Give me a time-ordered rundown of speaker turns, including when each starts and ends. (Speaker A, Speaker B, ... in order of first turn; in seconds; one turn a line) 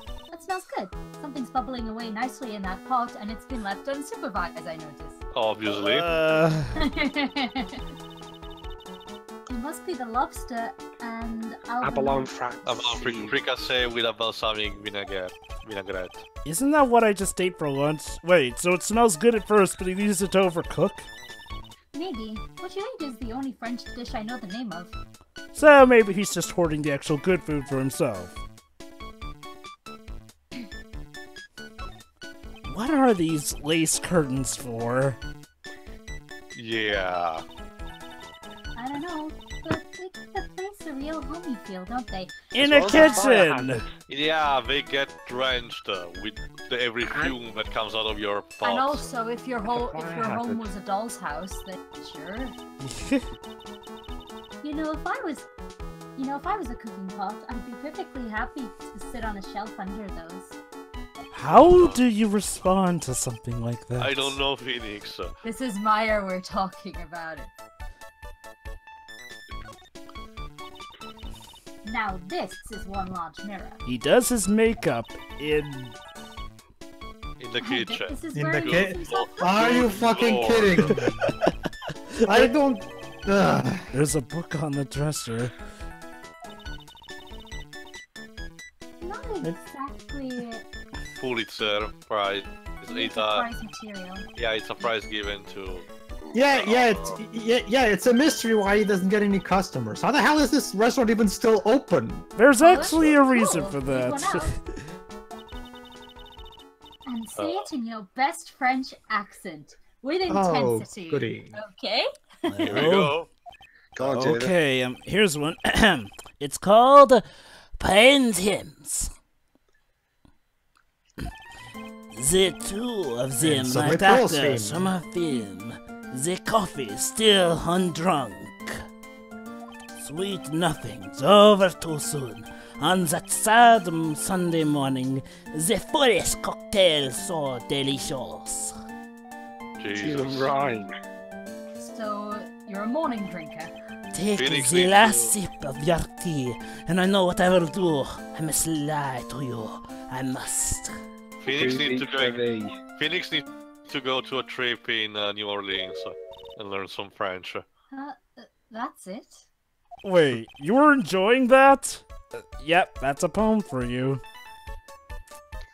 Speaker A: 0.3-5.2
Speaker B: 5.3-6.1
Speaker C: 5.7-6.8
Speaker A: 6.8-7.8
Speaker A: 9.5-12.3
Speaker D: 11.8-13.3
Speaker B: 12.6-16.2
Speaker C: 16.4-21.1
Speaker A: 21.9-24.9
Speaker C: 25.5-28.4
Speaker C: 32.6-35.2
Speaker B: 36.5-37.4
Speaker A: 38.8-43.4
Speaker C: 42.5-43.8
Speaker D: 42.6-43.9
Speaker B: 44.1-49.0
Speaker A: 48.6-52.5
Speaker D: 49.7-50.7
Speaker C: 52.8-53.2
Speaker A: 54.6-55.5
Speaker A: 56.1-60.5
Speaker C: 61.3-64.4
Speaker B: 61.5-62.0
Speaker B: 64.0-65.3
Speaker A: 65.4-67.5
Speaker A: 71.8-73.8
Speaker C: 73.8-76.0
Speaker B: 77.4-81.0
Speaker A: 77.6-79.8
Speaker E: 78.3-81.2
Speaker C: 81.2-81.5
Speaker C: 82.1-82.5
Speaker E: 82.2-83.9
Speaker C: 83.9-85.5
Speaker A: 89.0-90.7
Speaker B: 91.2-93.5
Speaker A: 92.9-94.2
Speaker B: 94.3-95.9
Speaker E: 96.3-102.3
Speaker B: 96.5-97.2
Speaker C: 102.3-104.8
Speaker A: 102.6-104.5
Speaker A: 107.0-112.9
Speaker B: 107.4-107.7
Speaker E: 110.3-111.6
Speaker C: 112.5-113.2
Speaker B: 112.6-113.3
Speaker D: 113.9-114.5
Speaker C: 114.0-117.2
Speaker C: 117.8-119.1
Speaker C: 122.1-128.8
Speaker E: 123.4-124.9
Speaker C: 129.9-138.8
Speaker B: 139.8-140.5
Speaker D: 139.9-140.9
Speaker A: 141.8-143.7
Speaker C: 144.1-150.9
Speaker B: 144.3-145.3
Speaker B: 151.4-152.4
Speaker D: 151.4-152.8
Speaker B: 152.9-157.6
Speaker A: 157.9-159.4
Speaker C: 160.0-164.2